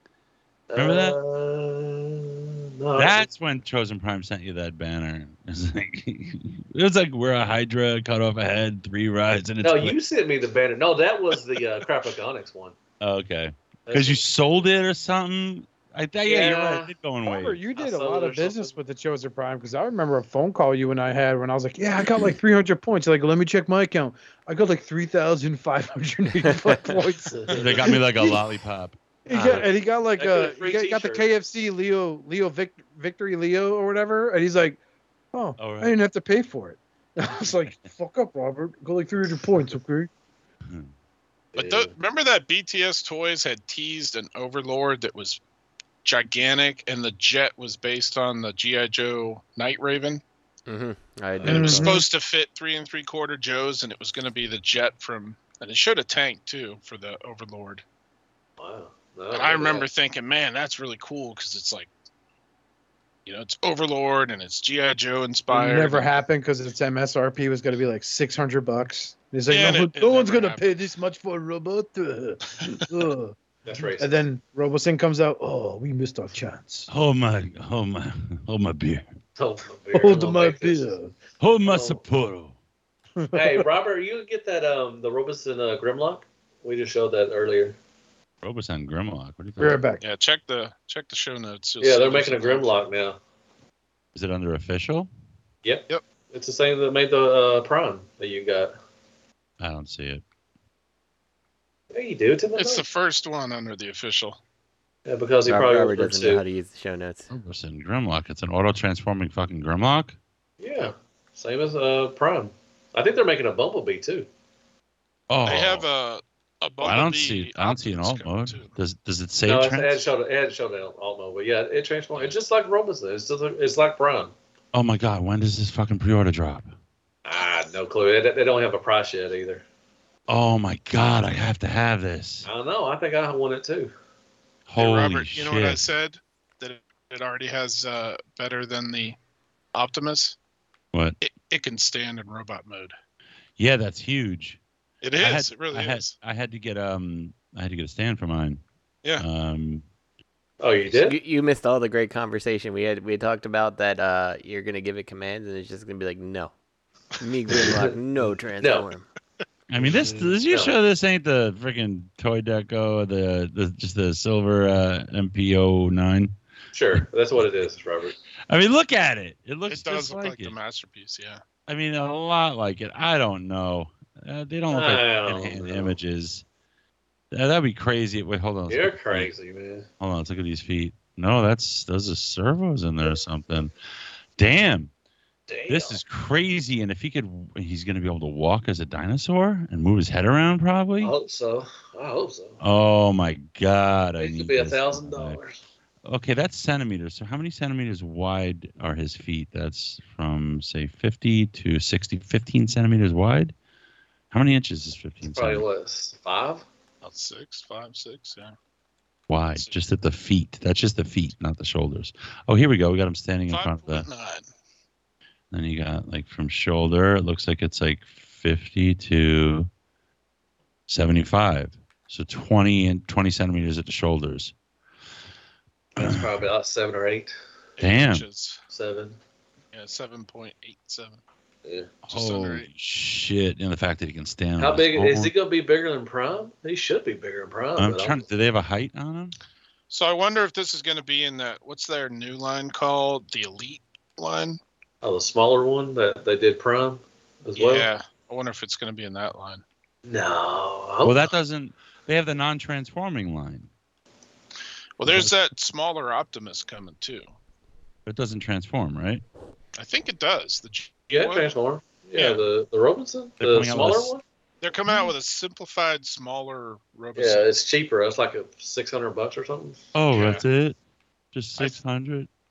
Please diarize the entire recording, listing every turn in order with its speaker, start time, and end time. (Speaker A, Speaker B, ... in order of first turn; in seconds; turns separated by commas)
Speaker A: 0.7-3.3, Speaker B: 0.8-1.2, Speaker B: 3.0-10.0, Speaker A: 9.6-12.8, Speaker B: 13.0-17.6, Speaker A: 13.9-14.3, Speaker A: 16.2-16.9, Speaker C: 17.2-28.4, Speaker A: 17.8-18.7, Speaker A: 27.3-27.9, Speaker B: 27.5-28.9, Speaker C: 29.3-34.8, Speaker A: 29.4-31.3, Speaker C: 35.3-40.1, Speaker B: 35.6-36.0, Speaker A: 41.5-41.9, Speaker D: 41.6-45.4, Speaker D: 46.0-50.2, Speaker E: 50.7-52.0, Speaker A: 51.4-51.8, Speaker C: 51.5-52.1, Speaker D: 51.5-57.8, Speaker A: 58.6-59.9, Speaker D: 59.3-61.9, Speaker D: 63.3-66.1, Speaker C: 65.5-76.9, Speaker D: 69.5-70.7, Speaker A: 73.7-74.2, Speaker B: 76.9-79.0, Speaker A: 79.4-80.9, Speaker C: 79.9-81.1, Speaker B: 81.4-82.6, Speaker A: 81.6-82.0, Speaker C: 83.2-83.6, Speaker A: 83.3-87.8, Speaker B: 88.4-89.8, Speaker C: 89.6-90.0, Speaker D: 90.0-92.7, Speaker A: 91.8-93.2, Speaker B: 94.2-95.1, Speaker A: 95.7-98.8, Speaker B: 99.6-100.2, Speaker A: 101.9-102.8, Speaker D: 102.6-104.4, Speaker A: 105.1-106.5, Speaker E: 105.5-107.3, Speaker B: 107.3-110.2, Speaker A: 110.6-114.3, Speaker B: 115.3-115.8, Speaker D: 115.5-118.7, Speaker B: 116.8-120.0, Speaker A: 119.4-124.3, Speaker B: 124.7-126.7, Speaker A: 127.2-129.6, Speaker B: 130.3-132.5, Speaker A: 132.4-133.9, Speaker B: 134.7-135.8, Speaker D: 134.8-139.2, Speaker D: 139.7-140.4, Speaker B: 140.9-141.2, Speaker D: 141.2-142.9, Speaker B: 143.6-144.6, Speaker D: 145.0-146.1, Speaker B: 145.2-148.6, Speaker B: 149.2-149.8, Speaker A: 150.6-151.2, Speaker E: 150.9-156.5, Speaker E: 157.2-159.1, Speaker A: 157.6-157.9, Speaker A: 158.6-158.9, Speaker B: 159.7-166.3, Speaker A: 159.8-160.7, Speaker A: 166.7-168.2, Speaker B: 168.5-170.5, Speaker D: 169.7-171.4, Speaker B: 171.7-176.4, Speaker A: 174.7-176.0, Speaker B: 177.3-179.3, Speaker A: 178.7-179.9, Speaker B: 180.0-183.7, Speaker B: 184.4-184.9, Speaker A: 185.5-186.0, Speaker B: 185.7-191.1, Speaker A: 191.0-192.6, Speaker B: 192.6-195.4, Speaker A: 194.2-195.6, Speaker B: 196.1-203.5, Speaker B: 204.3-205.7, Speaker A: 205.3-206.7, Speaker D: 207.0-208.6, Speaker B: 209.3-214.1, Speaker D: 213.5-214.5, Speaker B: 215.5-219.7, Speaker B: 220.9-224.5, Speaker A: 225.9-227.3, Speaker B: 226.0-226.3, Speaker D: 227.8-228.6, Speaker B: 227.8-228.2, Speaker A: 228.7-229.2, Speaker D: 229.7-231.2, Speaker A: 231.7-231.9, Speaker B: 232.1-235.3, Speaker D: 232.1-232.7, Speaker A: 234.6-238.2, Speaker B: 237.8-239.4, Speaker D: 239.9-244.6, Speaker A: 245.0-247.9, Speaker D: 247.6-249.6, Speaker A: 250.1-251.3, Speaker B: 251.0-253.7, Speaker D: 255.0-257.3, Speaker B: 255.1-255.3, Speaker B: 258.1-259.2, Speaker D: 259.8-261.5, Speaker A: 261.1-264.2, Speaker D: 262.1-262.4, Speaker B: 263.4-264.1, Speaker D: 264.6-267.5, Speaker A: 267.1-269.9, Speaker B: 269.9-270.8, Speaker D: 270.1-270.4, Speaker B: 271.3-272.3